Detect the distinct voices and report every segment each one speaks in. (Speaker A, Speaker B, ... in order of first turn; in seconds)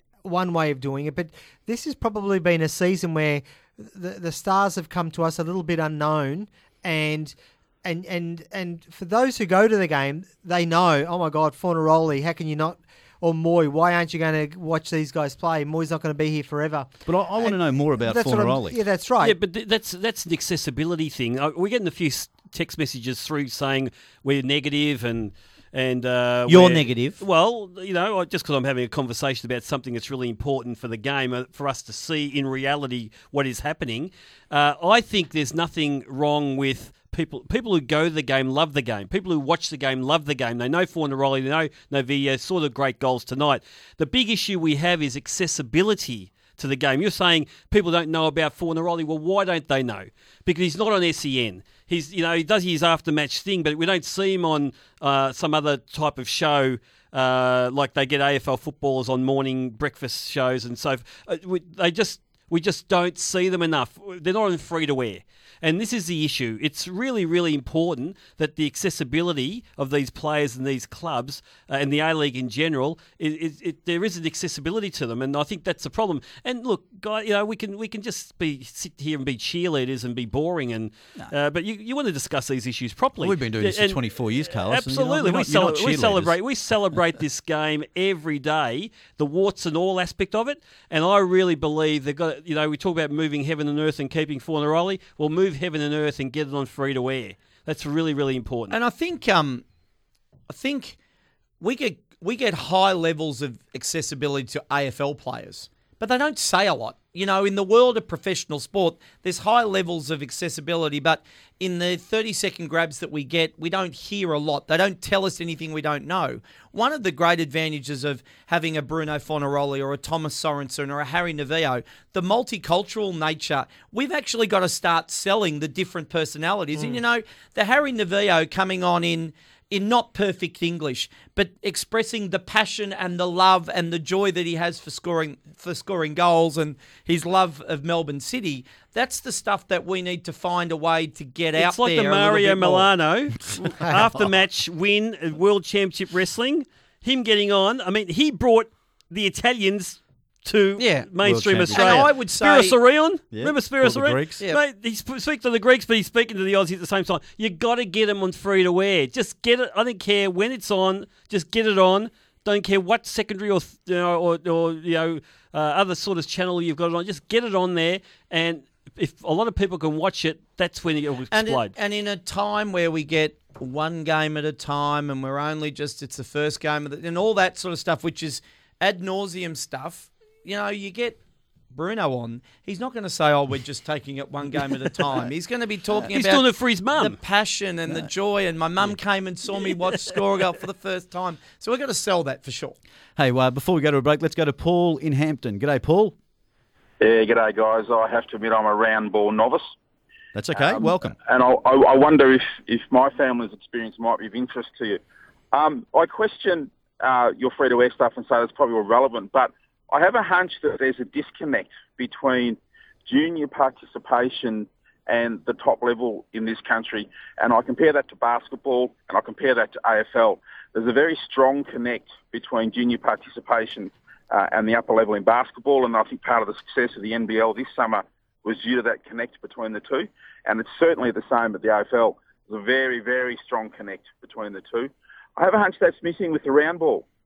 Speaker A: 0.2-19.4
Speaker B: 17.1-18.8, 83.2-86.3, 151.2-152.0, 153.3-154.5, 193.2-196.2, 200.3-201.2
Speaker C: 19.2-84.0, 84.7-98.8, 141.6-171.7, 186.1-187.2
Speaker D: 26.5-27.2, 98.7-99.6, 100.5-101.0, 101.6-142.9, 150.8-151.1, 151.7-152.8, 171.3-181.2, 181.7-192.8
Speaker E: 197.0-199.7, 200.6-205.0, 205.5-237.1